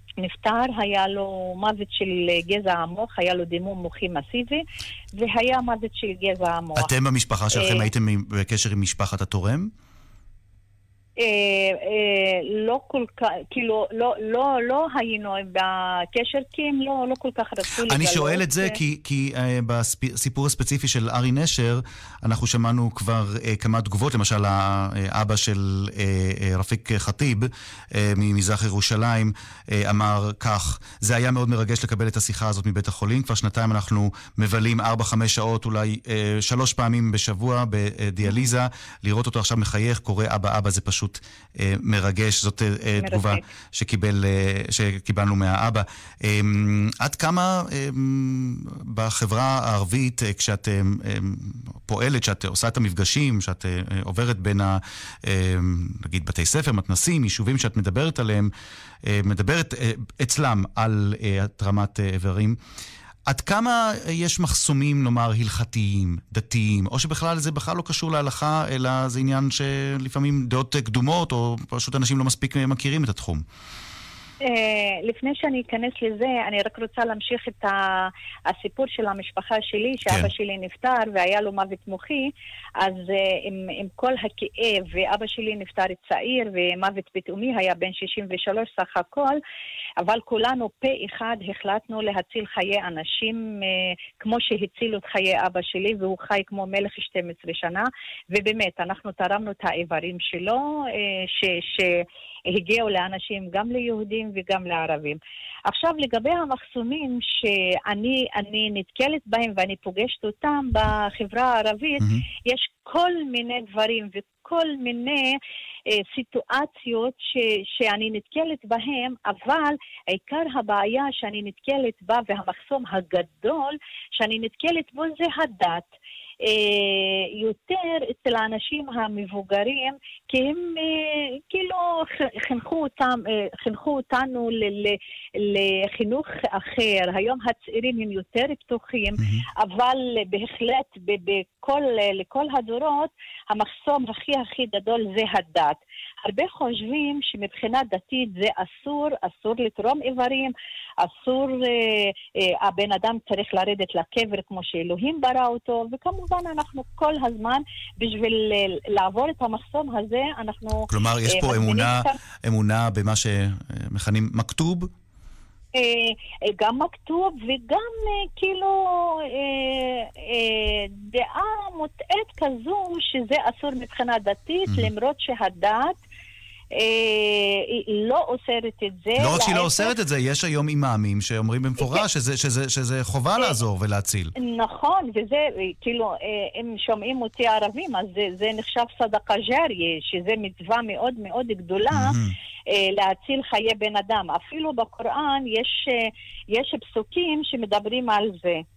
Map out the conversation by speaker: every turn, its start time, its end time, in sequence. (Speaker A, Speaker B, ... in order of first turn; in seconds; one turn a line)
Speaker A: 0.2-4.6
Speaker A: 5.1-6.9
Speaker B: 6.8-9.7
Speaker A: 7.5-7.9
Speaker A: 11.2-18.8
Speaker B: 17.9-58.5
Speaker A: 43.0-43.5
Speaker B: 59.0-62.6
Speaker B: 63.3-73.4
Speaker A: 74.4-89.4
Speaker A: 90.0-115.4
Speaker A: 116.0-125.9
Speaker A: 126.4-162.1
Speaker B: 160.9-164.9
Speaker A: 165.7-175.9
Speaker A: 176.7-179.9
Speaker B: 179.2-184.3
Speaker A: 181.8-182.0
Speaker A: 184.4-192.2
Speaker B: 191.9-192.3
Speaker A: 192.7-198.6